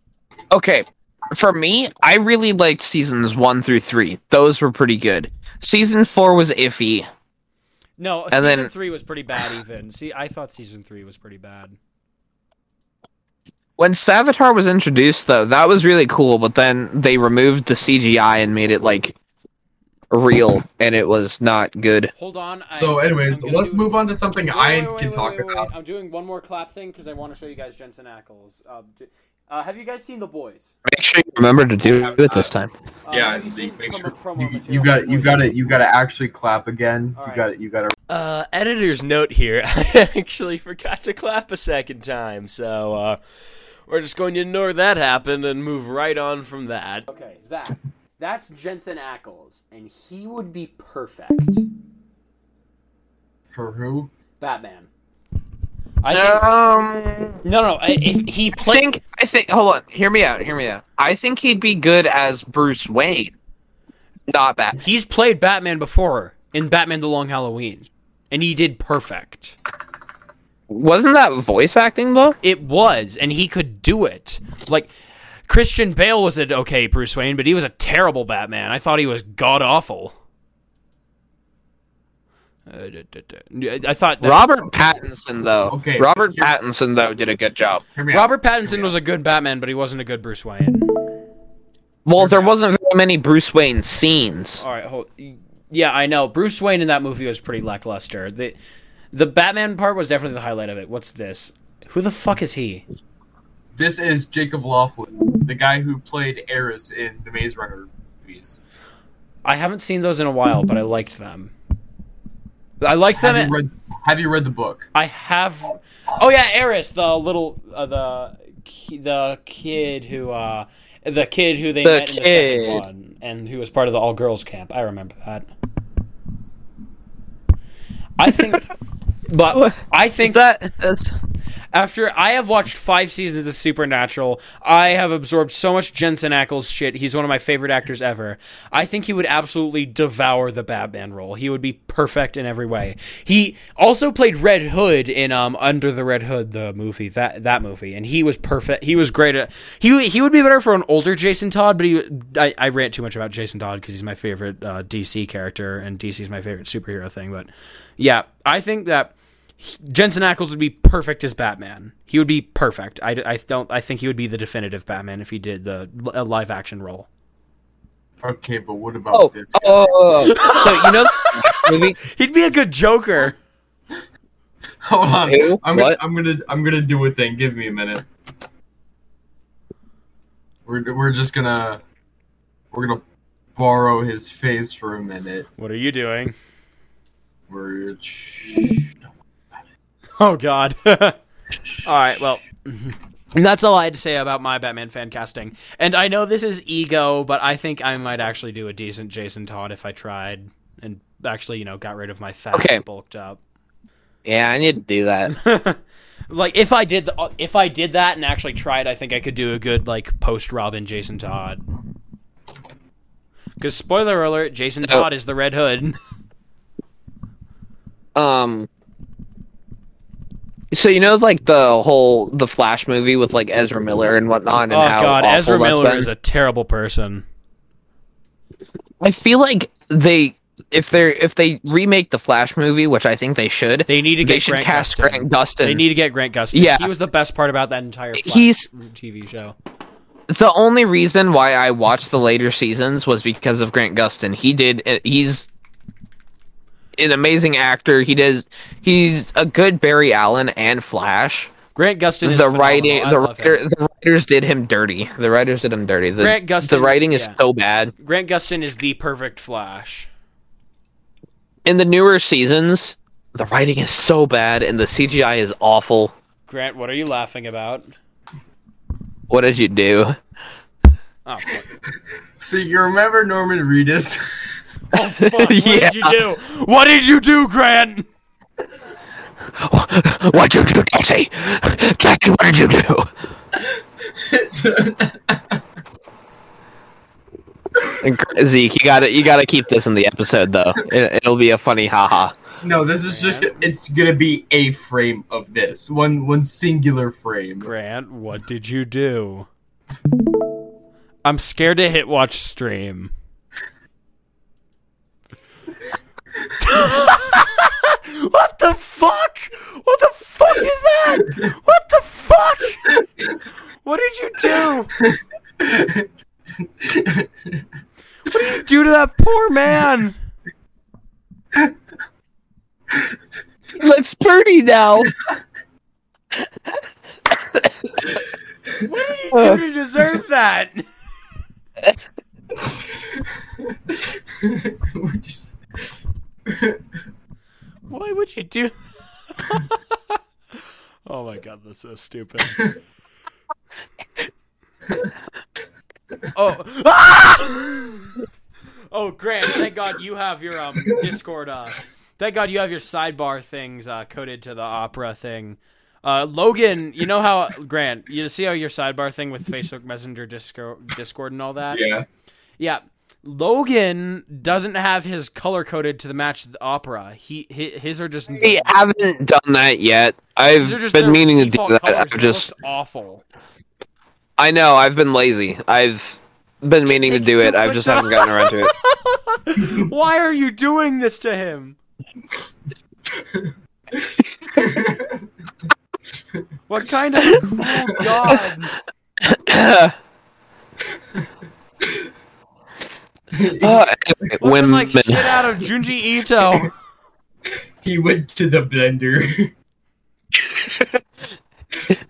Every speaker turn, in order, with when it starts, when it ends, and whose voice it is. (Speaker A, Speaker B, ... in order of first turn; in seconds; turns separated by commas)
Speaker A: 0.5-7.1, Speaker B: 8.0-11.8, Speaker A: 8.3-8.7, Speaker A: 13.8-19.1, Speaker A: 20.1-22.1, Speaker B: 22.1-23.9, Speaker C: 22.7-25.7, Speaker B: 24.5-30.7, Speaker A: 30.9-32.7, Speaker C: 32.2-32.5, Speaker B: 33.0-35.5, Speaker C: 33.1-37.9, Speaker B: 37.2-37.5, Speaker B: 38.1-43.2, Speaker B: 43.9-51.6, Speaker C: 53.5-54.1, Speaker B: 54.4-54.9, Speaker B: 56.0-56.5, Speaker A: 56.1-57.4, Speaker B: 57.4-58.9, Speaker A: 58.5-63.3, Speaker A: 64.3-64.8, Speaker B: 64.8-69.6, Speaker A: 70.7-72.4, Speaker B: 72.4-74.9, Speaker B: 75.5-80.2, Speaker B: 82.7-84.8, Speaker A: 84.2-87.8, Speaker C: 85.7-86.5, Speaker C: 87.9-88.9, Speaker B: 88.1-90.8, Speaker A: 92.0-94.6, Speaker C: 92.2-92.5, Speaker B: 94.6-98.6, Speaker B: 99.1-102.8, Speaker C: 103.7-108.6, Speaker B: 109.4-111.5, Speaker B: 112.8-113.5, Speaker C: 113.2-114.9, Speaker B: 114.9-125.5, Speaker A: 121.8-122.8, Speaker B: 128.2-128.7, Speaker B: 129.3-130.4, Speaker A: 129.5-131.1, Speaker B: 131.7-167.1, Speaker C: 168.2-170.1, Speaker A: 169.1-172.0, Speaker B: 170.2-173.4, Speaker C: 174.8-178.1, Speaker A: 175.2-176.0, Speaker C: 180.7-181.8, Speaker C: 182.7-183.0, Speaker C: 183.6-185.5, Speaker B: 185.6-186.3, Speaker C: 187.5-188.9, Speaker B: 190.2-191.2, Speaker B: 191.8-203.4, Speaker A: 202.5-202.8, Speaker A: 204.2-205.3, Speaker B: 205.3-211.6, Speaker B: 213.6-216.0, Speaker A: 218.2-218.7, Speaker A: 220.7-226.1, Speaker B: 224.7-227.2, Speaker A: 229.0-235.8, Speaker B: 233.9-239.6, Speaker A: 236.5-236.9, Speaker A: 238.2-238.7, Speaker A: 240.3-245.5, Speaker A: 247.0-251.5, Speaker B: 251.7-253.6, Speaker A: 252.2-257.9, Speaker B: 256.2-257.4, Speaker B: 258.0-260.1, Speaker A: 261.6-266.1, Speaker B: 266.5-267.9, Speaker A: 269.3-270.1, Speaker B: 271.2-271.6, Speaker C: 272.4-274.6, Speaker B: 274.9-278.1, Speaker A: 275.2-276.2, Speaker A: 279.6-283.1, Speaker C: 283.6-285.6, Speaker A: 288.0-292.3, Speaker C: 292.6-297.7, Speaker B: 293.0-293.6, Speaker B: 297.6-299.5, Speaker B: 301.2-303.1, Speaker B: 306.6-312.9, Speaker B: 313.8-314.9, Speaker C: 315.0-316.1, Speaker C: 316.8-317.6, Speaker B: 318.2-320.2, Speaker A: 323.8-325.1, Speaker B: 328.8-330.8, Speaker A: 329.3-329.6, Speaker C: 332.6-335.6, Speaker C: 336.4-336.8, Speaker B: 337.9-338.7, Speaker B: 339.3-340.2, Speaker B: 341.1-342.7, Speaker B: 346.3-348.1, Speaker B: 348.9-361.8, Speaker C: 361.7-362.0, Speaker B: 362.6-368.7, Speaker A: 368.4-372.5, Speaker B: 370.6-373.2, Speaker A: 374.4-378.7, Speaker B: 376.9-381.8, Speaker C: 383.1-383.5, Speaker C: 384.5-385.2, Speaker B: 386.7-388.7, Speaker A: 389.2-389.9, Speaker C: 393.3-393.9, Speaker A: 393.6-395.4, Speaker B: 394.4-396.7, Speaker C: 397.8-399.5, Speaker A: 400.3-401.0